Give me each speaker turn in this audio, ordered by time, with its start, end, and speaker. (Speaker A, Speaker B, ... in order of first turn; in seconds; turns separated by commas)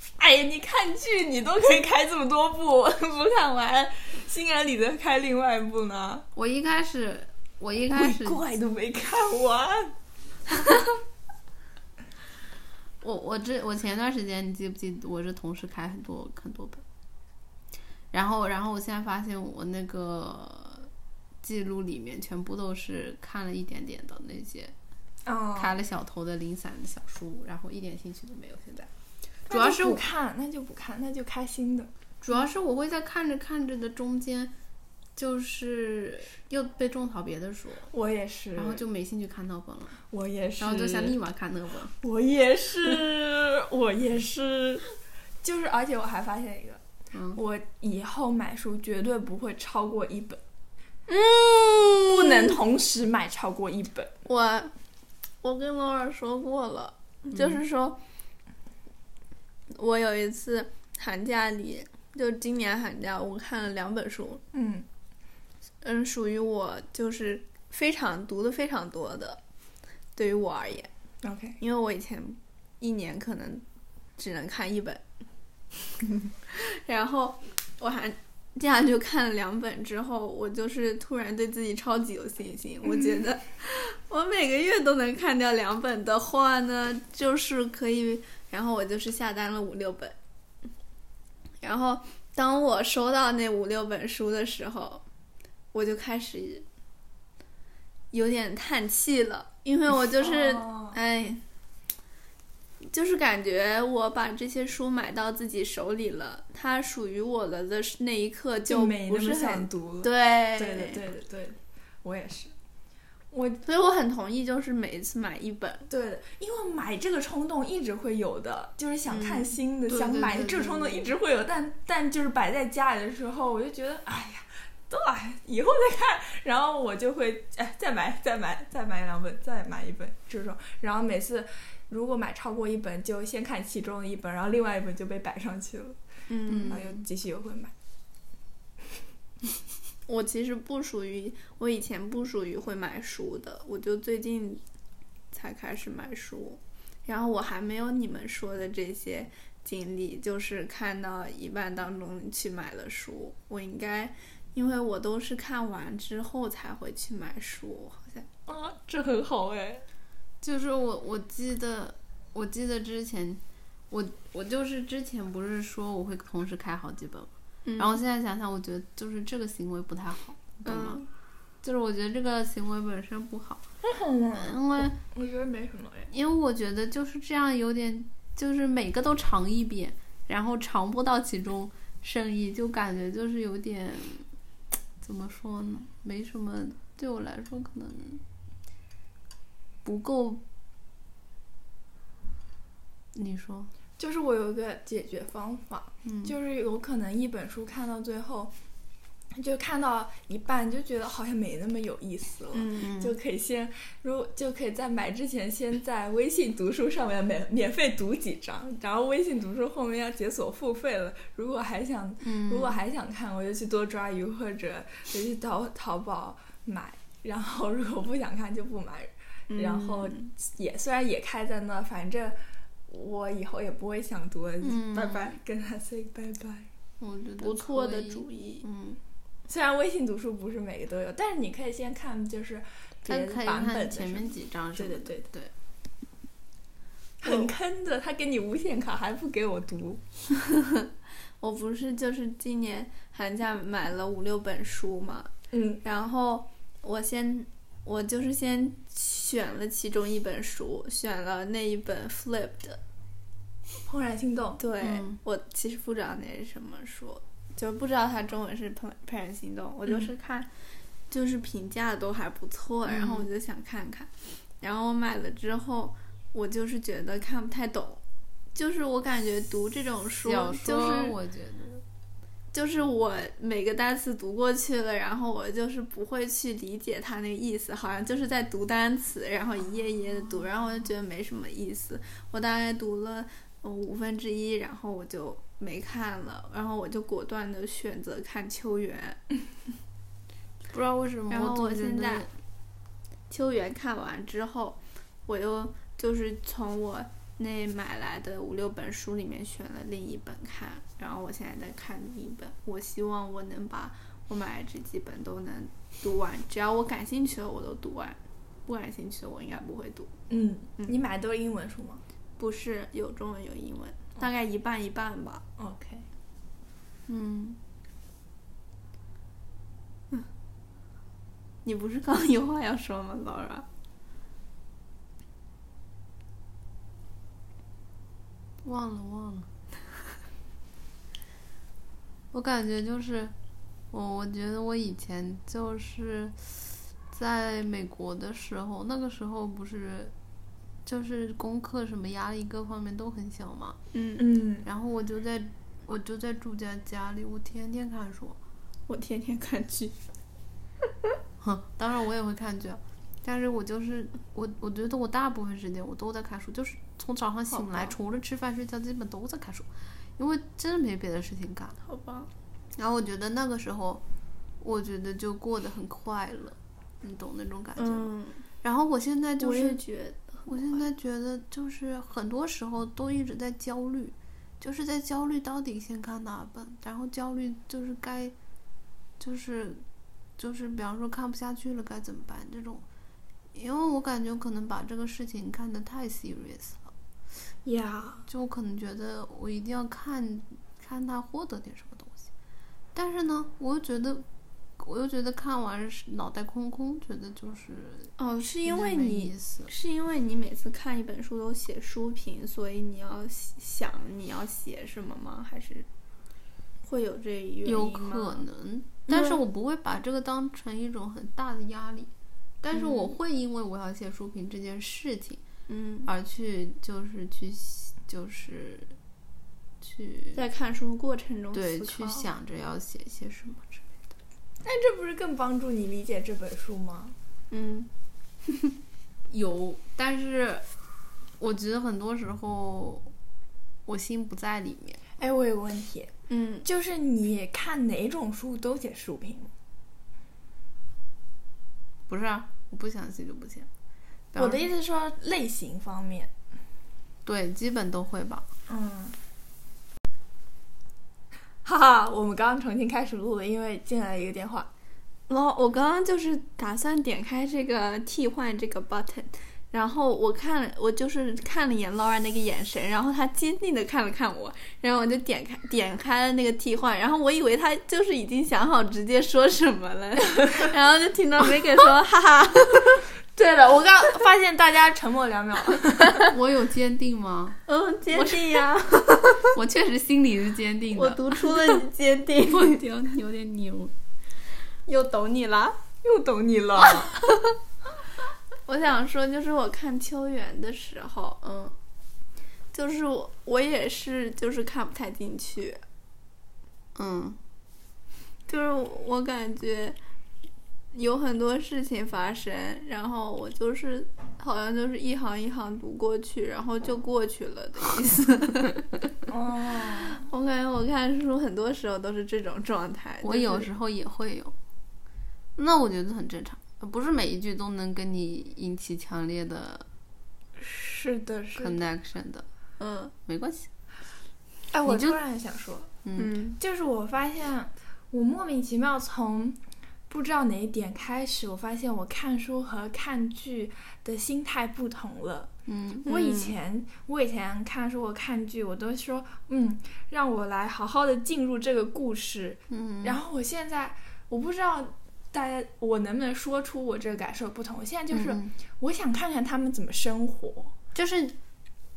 Speaker A: 0.2-6.3, Speaker B: 6.3-8.4, Speaker A: 7.9-9.9, Speaker B: 13.0-16.8, Speaker B: 18.1-20.9, Speaker B: 21.4-24.7, Speaker A: 25.2-25.8, Speaker B: 25.6-28.9, Speaker B: 29.5-30.0, Speaker A: 29.5-31.9, Speaker B: 32.2-34.5, Speaker B: 35.2-37.9, Speaker A: 37.9-38.8, Speaker B: 38.6-40.0, Speaker A: 40.1-41.2, Speaker B: 40.6-42.0, Speaker A: 42.0-44.9, Speaker A: 45.4-46.8, Speaker B: 47.1-47.4, Speaker A: 47.3-50.4, Speaker C: 51.1-52.6, Speaker A: 52.0-54.1, Speaker C: 54.3-54.7, Speaker C: 55.4-58.0, Speaker B: 57.3-57.6, Speaker C: 59.7-64.4, Speaker A: 64.5-64.9, Speaker C: 65.8-69.4, Speaker C: 70.2-70.9, Speaker A: 71.2-71.6, Speaker C: 71.6-73.6, Speaker C: 74.2-75.0, Speaker C: 76.5-90.2, Speaker A: 82.8-83.2, Speaker C: 91.6-95.0, Speaker C: 95.7-96.7, Speaker C: 98.1-101.4, Speaker A: 100.2-101.0, Speaker C: 102.9-111.0, Speaker A: 108.7-112.5, Speaker A: 113.3-113.6, Speaker C: 113.7-115.9, Speaker A: 115.9-136.0, Speaker C: 119.1-119.5, Speaker B: 119.9-121.1, Speaker C: 136.3-136.8, Speaker B: 136.5-137.0, Speaker A: 136.6-137.7, Speaker C: 140.1-144.6, Speaker C: 145.3-158.3, Speaker A: 158.5-159.8, Speaker B: 160.4-171.0, Speaker C: 167.7-168.0, Speaker C: 170.7-171.1, Speaker B: 171.6-173.6, Speaker A: 173.8-176.1, Speaker B: 174.3-175.0, Speaker B: 176.1-184.3, Speaker B: 185.0-188.2, Speaker B: 189.8-190.4, Speaker B: 193.2-193.7, Speaker A: 194.0-198.5, Speaker B: 196.1-196.3, Speaker A: 199.4-226.7, Speaker C: 202.5-202.9, Speaker B: 202.8-203.1, Speaker B: 212.2-212.8, Speaker C: 219.5-220.3, Speaker B: 224.6-225.4, Speaker B: 227.0-229.0, Speaker C: 227.4-228.7, Speaker A: 229.5-235.3, Speaker B: 233.1-235.5, Speaker A: 237.2-240.0, Speaker C: 237.2-237.5, Speaker C: 240.3-240.9, Speaker C: 241.4-245.3, Speaker A: 245.5-245.8, Speaker C: 245.8-252.8, Speaker A: 253.9-254.6, Speaker C: 254.6-260.5, Speaker B: 254.8-255.2, Speaker C: 261.1-268.0, Speaker B: 262.9-263.3, Speaker C: 268.6-271.2, Speaker B: 270.2-271.8, Speaker C: 272.5-289.2, Speaker B: 290.7-292.3, Speaker C: 291.3-292.3, Speaker C: 293.3-310.1, Speaker A: 310.3-312.0, Speaker C: 312.4-315.4, Speaker A: 315.6-316.1, Speaker B: 317.1-317.6, Speaker C: 321.6-323.7, Speaker B: 328.6-329.5, Speaker B: 332.3-333.4, Speaker B: 333.9-340.1, Speaker B: 340.9-343.8, Speaker C: 343.9-344.2, Speaker A: 344.2-344.7, Speaker B: 344.6-348.4, Speaker C: 348.9-350.0, Speaker B: 351.4-361.8, Speaker C: 357.5-357.9, Speaker C: 361.8-362.3, Speaker B: 362.8-364.0, Speaker B: 364.6-368.1, Speaker C: 367.8-368.4, Speaker B: 368.6-369.8, Speaker C: 369.4-370.9, Speaker B: 370.5-378.3, Speaker B: 379.2-379.8, Speaker B: 380.4-382.8, Speaker B: 383.5-386.9, Speaker A: 387.6-388.2, Speaker B: 388.3-392.3, Speaker B: 392.9-394.2, Speaker B: 394.8-399.7, Speaker C: 398.2-405.9, Speaker C: 406.8-408.5, Speaker B: 407.6-412.1, Speaker C: 409.1-409.4, Speaker B: 412.6-415.4, Speaker C: 412.7-413.1, Speaker C: 415.7-416.1, Speaker B: 416.1-419.0, Speaker B: 419.8-420.4, Speaker C: 420.4-422.3, Speaker B: 421.5-424.1, Speaker A: 424.6-427.1, Speaker C: 427.5-427.9, Speaker B: 429.3-430.6, Speaker B: 431.4-433.1, Speaker B: 433.9-435.0, Speaker A: 435.2-439.5, Speaker C: 436.3-436.6, Speaker B: 442.1-443.7, Speaker B: 444.3-444.6, Speaker A: 444.4-446.3, Speaker B: 447.2-448.5, Speaker A: 448.7-449.2, Speaker A: 451.6-454.7, Speaker C: 455.3-473.1, Speaker A: 473.4-476.2, Speaker B: 476.2-477.6, Speaker C: 477.7-479.6, Speaker B: 479.4-481.6, Speaker C: 480.9-482.9, Speaker B: 482.5-483.9, Speaker C: 484.9-485.8, Speaker A: 486.0-487.1, Speaker C: 486.9-487.6, Speaker C: 488.7-491.4, Speaker B: 491.4-491.7, Speaker C: 492.7-495.8, Speaker B: 496.9-497.4, Speaker C: 498.5-500.0, Speaker C: 500.9-508.9, Speaker A: 509.3-510.2, Speaker C: 509.9-513.7, Speaker B: 513.2-514.5, Speaker B: 515.6-519.9, Speaker A: 520.6-521.7, Speaker B: 521.5-522.5, Speaker C: 522.8-523.1, Speaker B: 523.3-523.7, Speaker A: 524.7-525.9, Speaker B: 524.9-525.2, Speaker B: 526.0-526.3, Speaker C: 526.2-526.6, Speaker A: 526.6-535.5, Speaker B: 535.7-536.1, Speaker C: 536.1-536.5, Speaker A: 536.1-550.7, Speaker B: 542.7-543.2, Speaker B: 548.1-548.5, Speaker B: 551.0-551.4